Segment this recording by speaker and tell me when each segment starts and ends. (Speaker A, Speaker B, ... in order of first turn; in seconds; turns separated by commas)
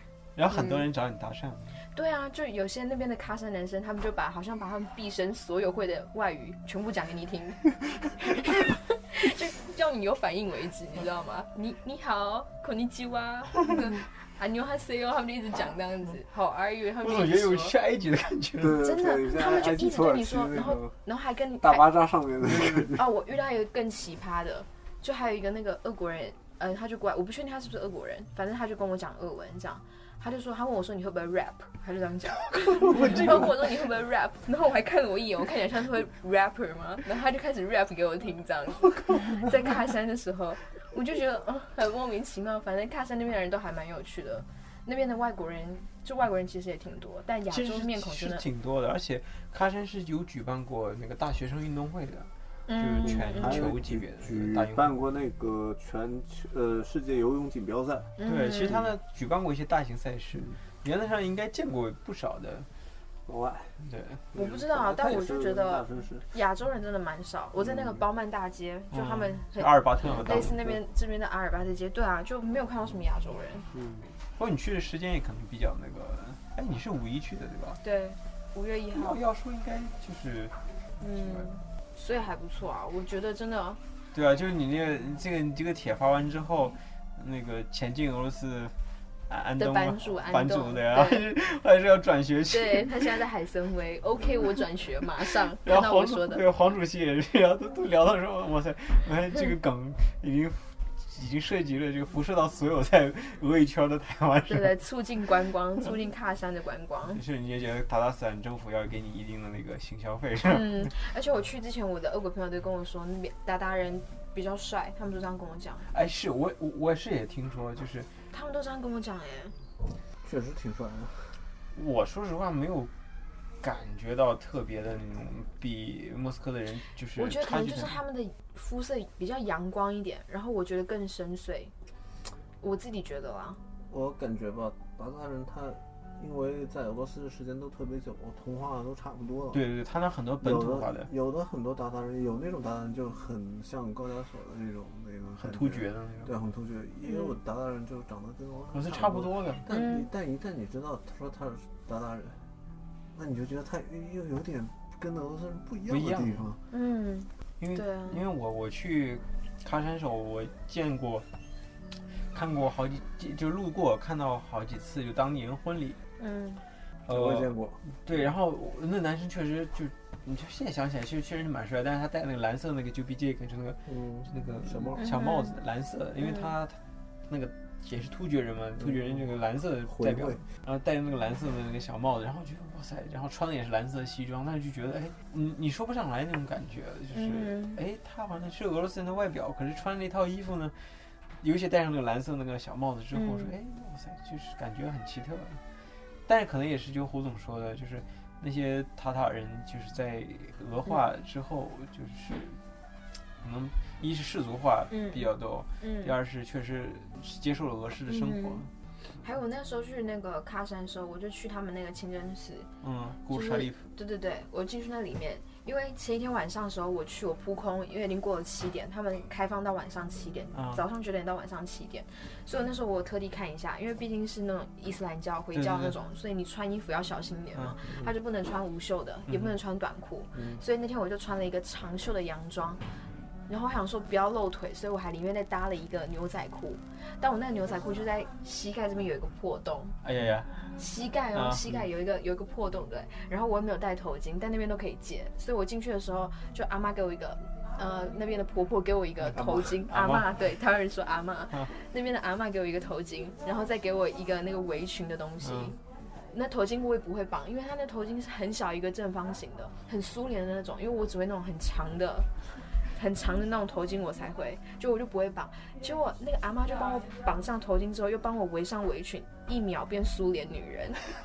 Speaker A: 0.4-1.8, Speaker B: 0.5-0.9, Speaker B: 1.9-17.8, Speaker A: 17.0-18.8, Speaker C: 18.6-21.0, Speaker B: 18.8-22.0, Speaker C: 21.6-23.1, Speaker B: 22.8-48.5, Speaker A: 32.8-33.5, Speaker A: 47.5-54.9, Speaker B: 52.7-53.6, Speaker C: 53.0-58.1, Speaker B: 58.2-58.8, Speaker A: 58.2-62.7, Speaker C: 63.3-63.8, Speaker A: 63.8-64.2, Speaker C: 64.3-66.3, Speaker B: 64.3-73.7, Speaker C: 67.6-68.0, Speaker A: 68.9-70.6, Speaker C: 70.0-70.8, Speaker C: 73.7-74.1, Speaker A: 74.4-77.8, Speaker B: 77.8-79.2, Speaker A: 79.0-80.5, Speaker B: 81.0-83.8, Speaker A: 81.1-81.5, Speaker A: 84.1-88.7, Speaker A: 89.3-93.0, Speaker B: 89.6-91.3, Speaker B: 92.5-96.4, Speaker A: 95.6-104.8, Speaker B: 104.5-107.2, Speaker A: 107.1-110.9, Speaker B: 110.5-115.9, Speaker A: 115.9-118.1, Speaker B: 118.3-119.6, Speaker C: 120.2-121.4, Speaker A: 121.7-122.9, Speaker A: 123.6-128.0, Speaker B: 127.2-131.7, Speaker B: 132.6-133.6, Speaker C: 133.9-139.6, Speaker A: 139.5-141.1, Speaker C: 140.4-152.4, Speaker A: 145.4-146.4, Speaker B: 147.1-147.4, Speaker A: 148.7-149.7, Speaker B: 149.7-150.1, Speaker C: 153.1-156.6, Speaker A: 155.9-156.5, Speaker B: 156.7-158.2, Speaker A: 157.6-161.3, Speaker A: 162.3-166.0, Speaker B: 166.2-166.6, Speaker A: 167.1-190.8, Speaker C: 167.1-167.8, Speaker C: 173.9-175.0, Speaker B: 175.0-175.6, Speaker B: 176.2-176.5, Speaker C: 178.8-179.3, Speaker C: 179.8-180.4, Speaker B: 187.1-187.8, Speaker A: 191.4-195.6, Speaker B: 193.1-193.5, Speaker A: 196.3-202.6, Speaker A: 203.4-208.7, Speaker B: 204.9-206.1, Speaker B: 208.1-208.6, Speaker B: 209.2-212.7, Speaker A: 212.8-213.8, Speaker B: 213.3-232.8, Speaker A: 220.6-220.8, Speaker A: 225.5-226.0, Speaker A: 229.3-229.6, Speaker B: 233.5-240.0, Speaker A: 240.0-240.7, Speaker B: 240.8-255.8, Speaker A: 241.3-241.6, Speaker A: 249.3-250.3, Speaker A: 255.4-255.8, Speaker B: 256.3-262.3, Speaker B: 262.9-271.0